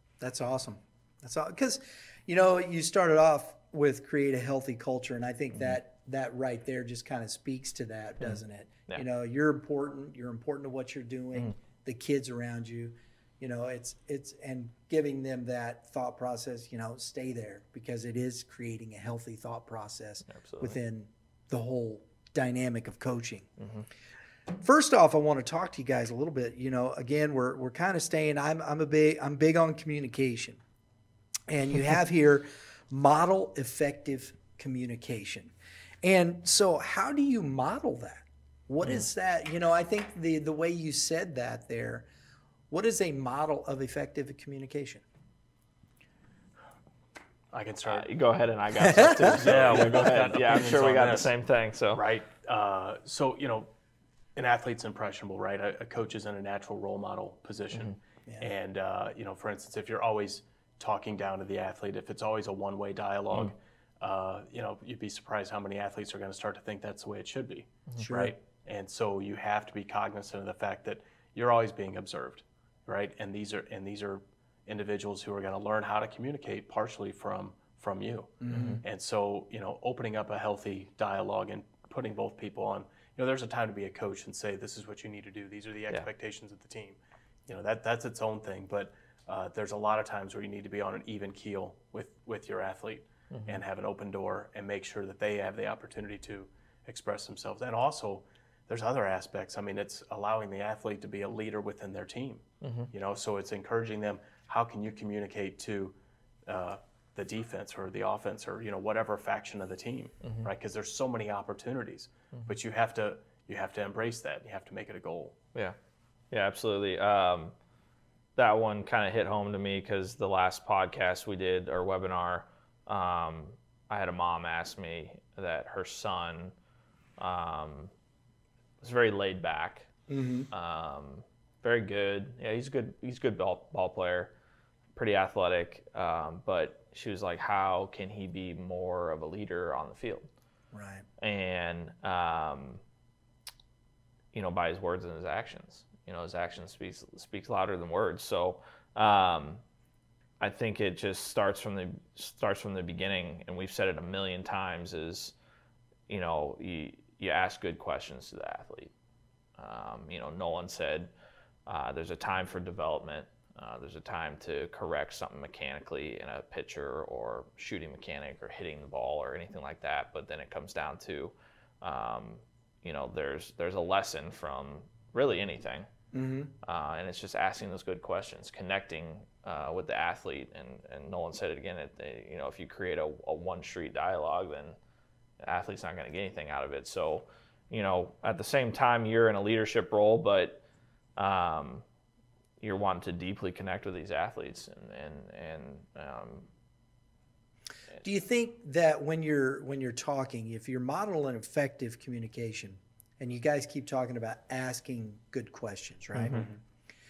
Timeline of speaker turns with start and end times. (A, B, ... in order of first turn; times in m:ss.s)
0:00.2-0:23.5 A
0:08.2-0:09.0 B
0:20.2-0:20.8 B
0:23.6-0:23.8 B
0:24.5-0:30.6 A
0:31.5-0:35.5 A
0:36.0-0:42.0 A
0:42.7-0:45.0 A
0:47.5-0:48.1 C
0:47.8-0:52.0 B
0:48.8-0:49.7 A
0:49.2-0:51.3 C
0:51.9-0:53.7 C
0:54.4-1:45.9 C
1:08.0-1:08.3 A
1:18.4-1:18.8 A
1:18.5-1:18.8 B
1:33.3-1:33.6 B
1:42.6-1:42.9 B
1:46.4-1:55.4 C
1:50.2-1:50.5 B
1:56.3-1:57.5 B
1:58.4-2:06.5 B
2:07.2-2:07.9 B
2:08.8-2:09.9 B
2:10.1-2:10.5 A
2:10.5-2:14.3 B
2:14.9-2:20.3 B
2:20.7-2:21.0 A
2:21.2-2:22.8 B
2:24.3-2:29.6 B
2:30.4-2:35.3 B
2:36.1-2:38.9 B
2:39.6-2:41.1 B
2:41.6-2:55.9 B
2:56.1-2:56.5 A
2:56.6-3:04.8 B
3:05.4-3:10.6 B
3:11.2-3:11.8 B
3:12.6-3:16.5 B
3:18.0-3:26.4 A
3:26.1-3:26.4 B
3:26.3-3:26.6 C